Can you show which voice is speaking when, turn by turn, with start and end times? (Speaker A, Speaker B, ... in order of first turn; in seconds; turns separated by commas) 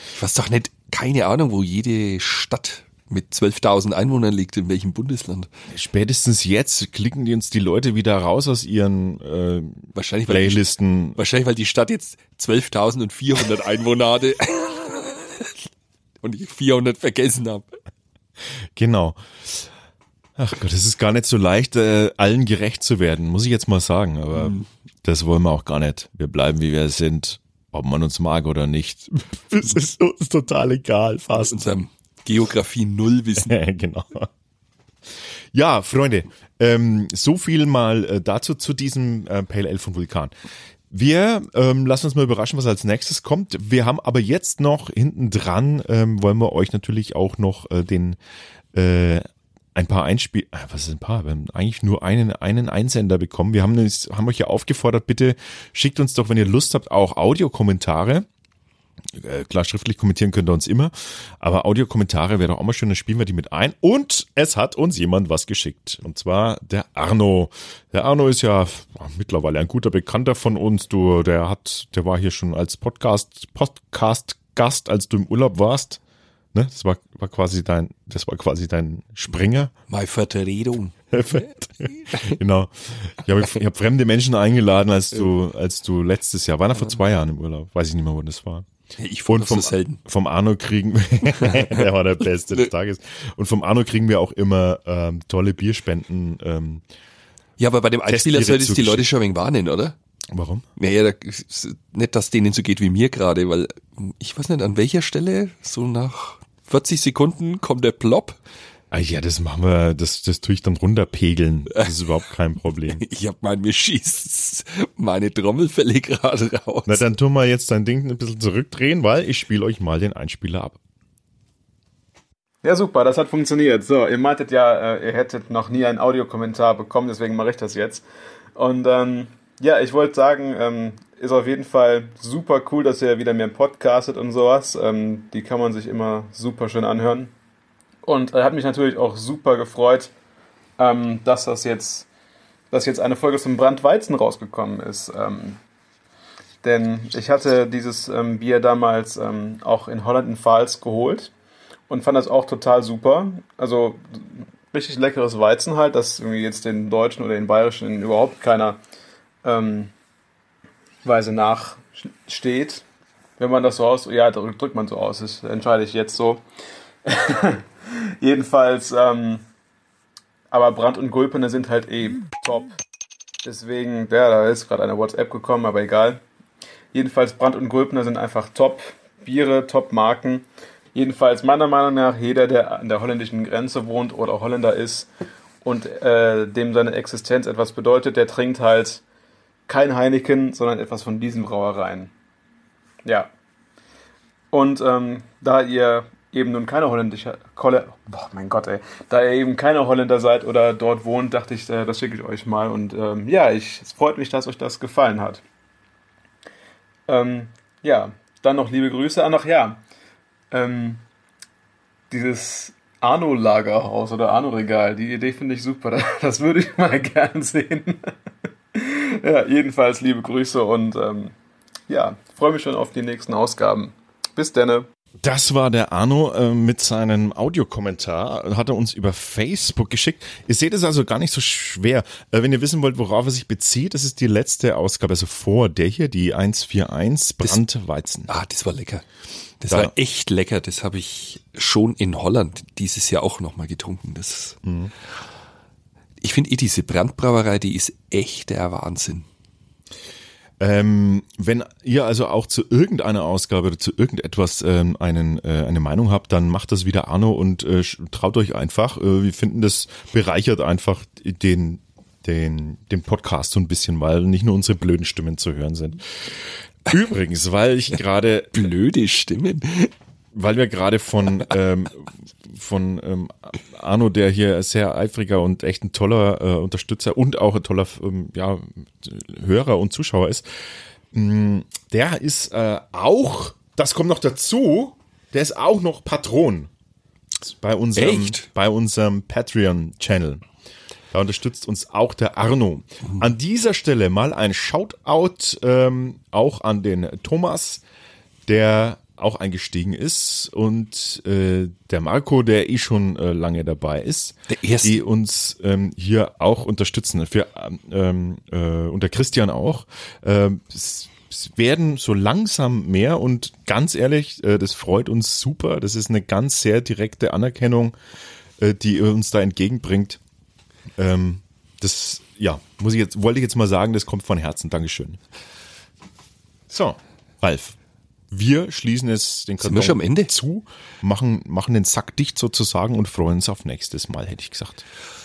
Speaker A: 0.1-5.5, Speaker B: 5.7-11.2, Speaker A: 9.9-10.7, Speaker A: 11.2-15.6, Speaker A: 16.2-17.7, Speaker B: 18.7-19.7, Speaker B: 20.4-31.8, Speaker A: 24.3-24.7, Speaker A: 31.3-33.5, Speaker B: 33.4-34.3, Speaker B: 35.5-40.3, Speaker B: 40.9-48.2, Speaker B: 48.7-58.3, Speaker B: 59.1-76.0, Speaker B: 76.5-79.7, Speaker A: 79.9-82.4, Speaker B: 81.1-88.7, Speaker A: 89.0-90.0, Speaker B: 89.3-96.8, Speaker A: 91.4-91.9, Speaker A: 97.6-100.0, Speaker B: 98.1-99.1, Speaker B: 100.3-100.7, Speaker A: 100.8-108.4, Speaker B: 108.9-113.0, Speaker A: 111.7-112.0, Speaker A: 112.9-117.1, Speaker B: 116.9-120.8, Speaker C: 122.6-137.3, Speaker C: 138.0-140.1, Speaker C: 140.8-142.1, Speaker C: 142.7-145.6, Speaker C: 146.6-151.3, Speaker C: 151.9-158.8, Speaker C: 159.4-159.9, Speaker C: 161.0-162.8, Speaker C: 163.4-166.4, Speaker C: 167.1-169.4, Speaker C: 170.5-172.8, Speaker C: 173.4-176.2, Speaker C: 176.9-185.1, Speaker C: 185.6-189.0, Speaker C: 189.7-192.1, Speaker C: 193.1-193.3, Speaker C: 194.5-205.4, Speaker C: 207.1-209.8, Speaker C: 210.5-211.0, Speaker C: 212.1-218.1, Speaker C: 218.7-221.3, Speaker C: 221.9-224.9, Speaker B: 225.2-238.3, Speaker A: 238.3-239.1, Speaker A: 239.6-244.6, Speaker B: 244.6-244.9, Speaker A: 246.2-249.3, Speaker B: 250.6-266.3, Speaker B: 266.9-268.7, Speaker A: 268.5-269.9, Speaker B: 270.3-280.5, Speaker B: 281.1-286.7, Speaker B: 287.4-290.4, Speaker A: 288.0-288.5, Speaker B: 291.1-297.8, Speaker B: 298.5-317.9, Speaker A: 304.5-305.0, Speaker B: 318.6-320.2, Speaker B: 321.0-325.2, Speaker B: 326.7-327.8, Speaker B: 328.3-334.9, Speaker A: 329.6-330.3